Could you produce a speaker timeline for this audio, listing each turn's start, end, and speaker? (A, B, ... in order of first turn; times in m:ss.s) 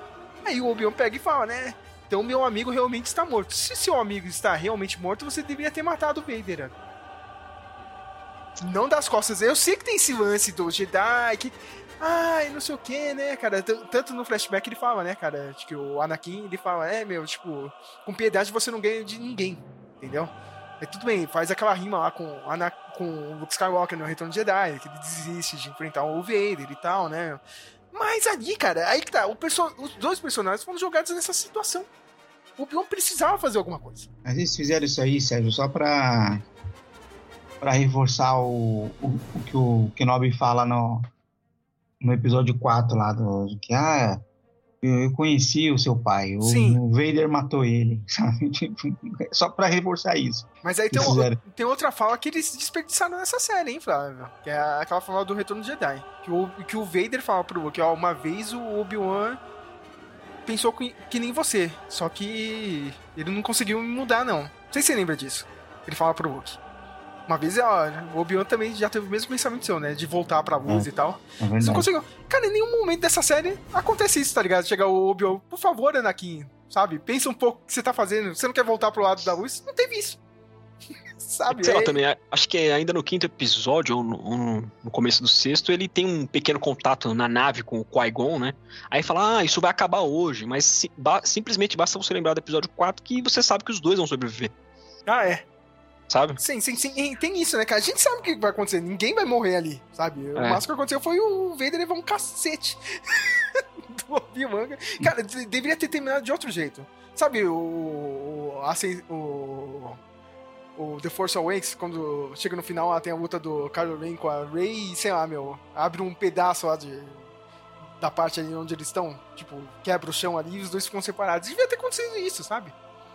0:00.4-0:06.7 A
0:08.6-0:31.9 A
0:32.6-0:34.1 A
0:34.2-0:36.4 B
0:37.6-0:41.1 B
0:42.0-0:44.2 B
0:44.8-0:51.4 B
0:46.4-0:46.8 A
0:50.6-0:59.4 A
1:00.4-1:06.6 A
1:07.3-1:20.2 A
1:11.4-1:11.9 B
1:21.2-1:21.9 A
1:21.5-1:34.5 C
1:35.1-1:35.4 A
1:36.1-1:36.4 C
1:36.4-1:50.0 A
1:40.4-1:40.6 C
1:50.8-1:57.2 A
1:58.0-2:02.7 A